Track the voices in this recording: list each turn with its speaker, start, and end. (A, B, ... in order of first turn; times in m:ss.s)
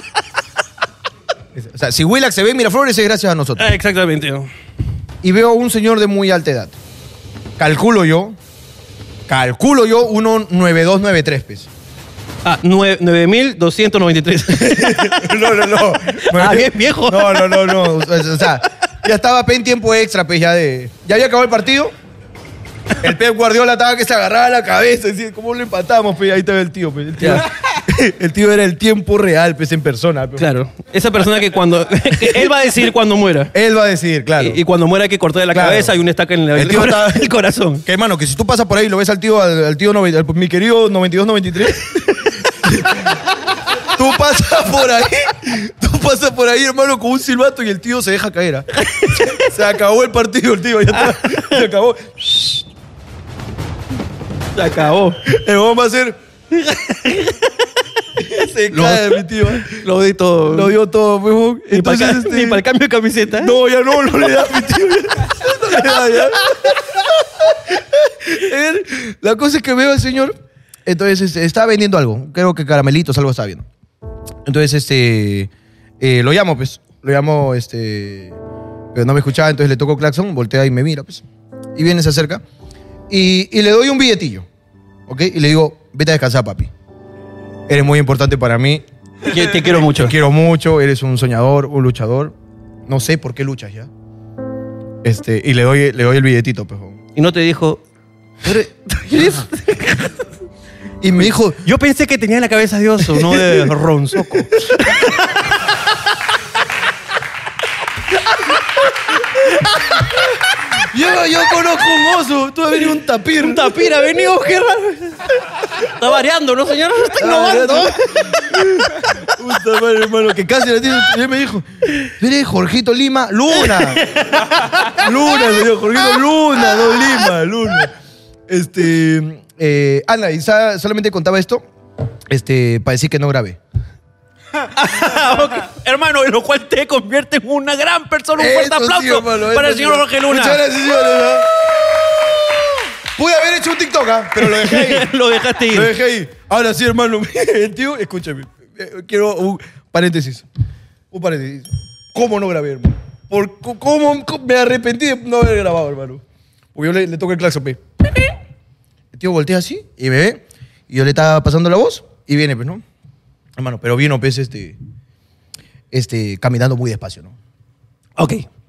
0:01.5-0:03.7 A
0:03.6-0:04.5 B
0:05.2-0:06.8 A
0:07.6-0:08.4 A
0:09.3-0:11.7 A
0:12.4-0:15.3 B
0:14.5-0:21.9 A
0:16.2-0:17.8 B
0:23.0-0:30.5 A
0:30.4-0:33.5 B
0:32.2-0:32.4 A
0:33.5-0:34.6 A
0:34.4-0:37.8 B
0:35.5-0:35.9 A
0:36.5-0:37.3 A
0:37.8-0:42.0 A
0:42.6-0:43.1 A
0:43.9-0:52.6 A
0:48.8-0:49.4 B
0:50.9-0:51.6 B
0:54.5-0:55.2 B
0:55.2-0:56.2 A
0:56.5-0:57.5 B
0:58.2-0:59.8 A
0:58.7-1:00.8 B
1:00.5-1:02.6 A
1:01.7-1:03.6 B
1:03.3-1:13.7 A
1:05.4-1:06.8 B
1:14.4-1:18.4 A
1:18.9-1:21.2 A
1:21.7-1:22.4 A
1:23.1-1:24.5 A
1:25.1-1:26.7 A
1:27.7-1:32.3 A
1:29.2-1:30.1 B
1:32.8-1:33.9 A
1:35.0-1:37.0 A
1:37.1-1:37.8 B
1:38.4-1:40.2 B
1:39.1-1:39.4 A
1:41.0-1:41.6 A
1:41.2-1:45.5 B
1:43.0-1:44.6 A
1:49.6-1:49.8 B
1:50.8-1:53.8 A
1:52.8-1:58.4 B
1:57.2-2:04.0 A
2:03.5-2:07.2 B
2:04.9-2:07.9 A
2:08.5-2:11.6 A
2:12.3-2:13.6 A
2:14.7-2:20.6 B
2:18.4-2:21.5 A
2:23.2-2:25.1 A
2:24.4-2:25.9 B
2:25.7-2:30.4 A
2:31.1-2:36.2 A
2:36.7-2:37.8 A
2:39.1-2:42.8 A
2:43.6-2:44.8 A
2:45.9-2:47.3 A
2:48.2-2:48.4 B